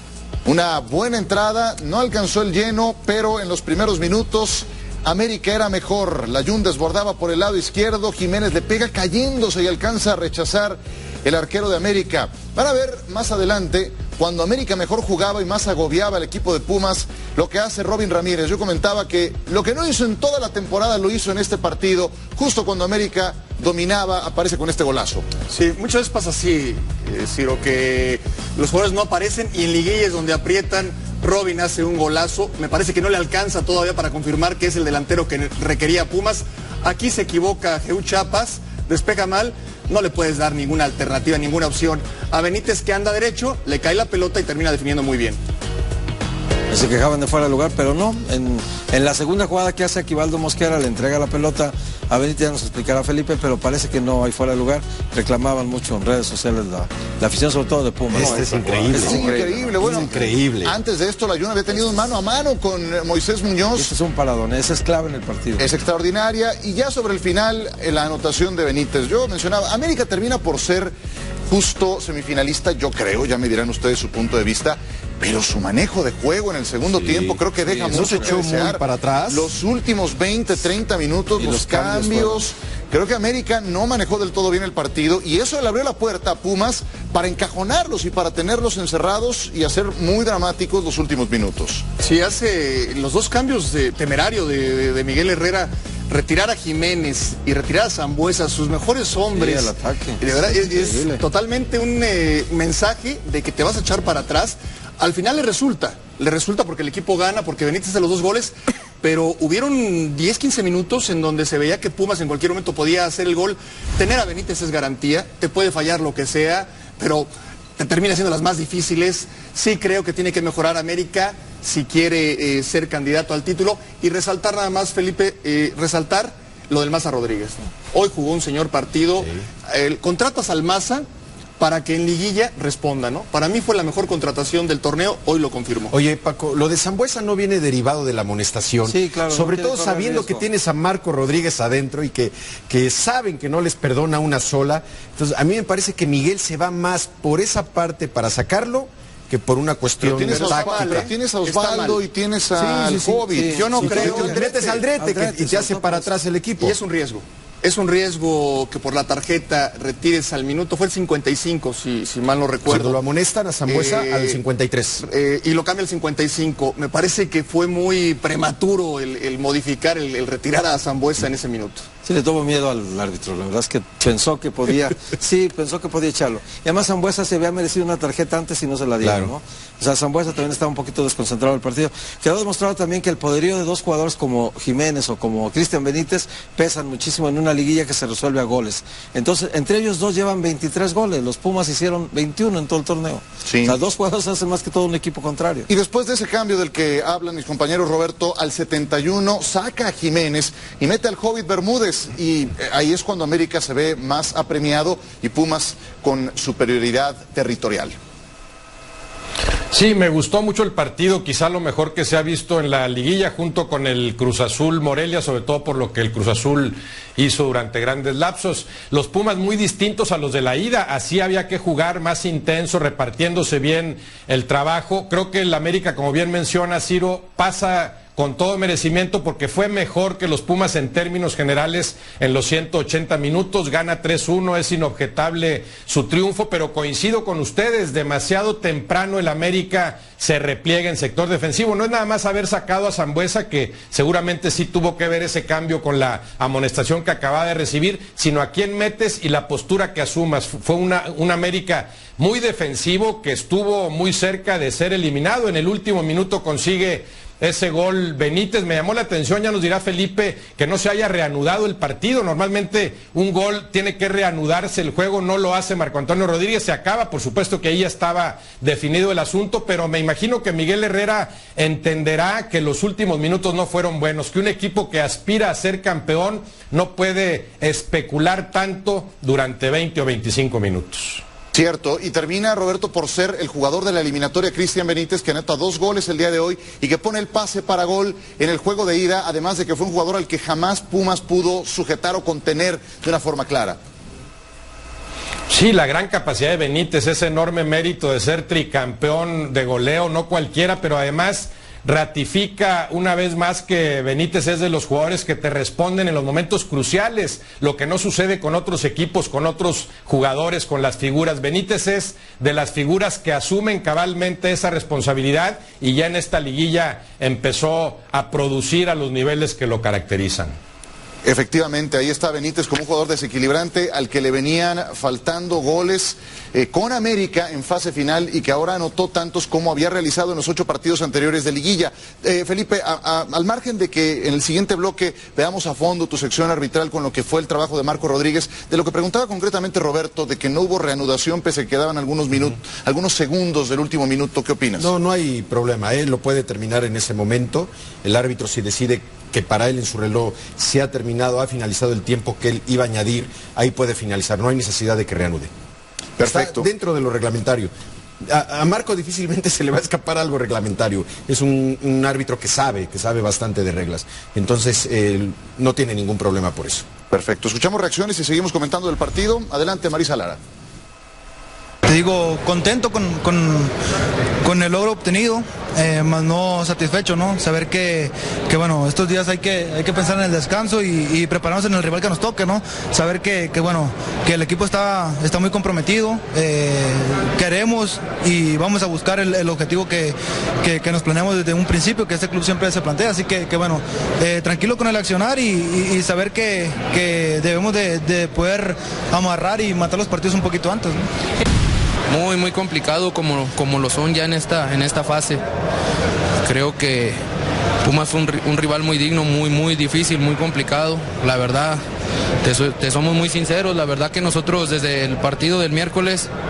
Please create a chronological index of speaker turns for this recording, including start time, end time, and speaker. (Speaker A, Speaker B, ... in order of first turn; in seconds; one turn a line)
Speaker A: 0.5-25.3
Speaker B: 25.5-45.4
Speaker C: 46.7-59.8
Speaker D: 58.1-60.7
Speaker A: 59.0-63.9
Speaker C: 63.7-65.7
Speaker A: 65.6-70.9
Speaker A: 71.5-91.8
Speaker C: 76.9-78.2
Speaker D: 77.9-79.5
Speaker C: 81.4-82.5
Speaker B: 92.0-131.1
Speaker C: 99.3-101.2
Speaker D: 129.2-129.4
Speaker B: 131.6-135.9
Speaker D: 135.9-151.1
Speaker C: 138.8-140.4
Speaker A: 150.0-154.7
Speaker B: 150.1-152.0
Speaker D: 152.6-153.2
Speaker C: 153.2-156.1
Speaker D: 153.7-156.7
Speaker B: 153.8-154.2
Speaker B: 156.6-163.0
Speaker D: 162.7-165.0
Speaker B: 163.7-164.4
Speaker B: 165.0-171.8
Speaker C: 172.0-195.7
Speaker D: 179.0-179.3
Speaker A: 193.4-193.8
Speaker A: 195.7-207.9
Speaker E: 209.7-281.2
Speaker A: 281.5-293.8
Speaker E: 295.5-320.6
Speaker A: 321.2-344.9
Speaker D: 344.8-355.5
Speaker A: 356.2-356.7
Speaker D: 356.2-357.7
Speaker D: 358.3-366.9
Speaker A: 367.1-370.4
Speaker F: 371.9-373.7
Speaker F: 374.4-401.0
Speaker G: 402.1-405.4
Speaker G: 406.4-407.2
Speaker G: 407.8-411.8
Speaker G: 412.4-416.3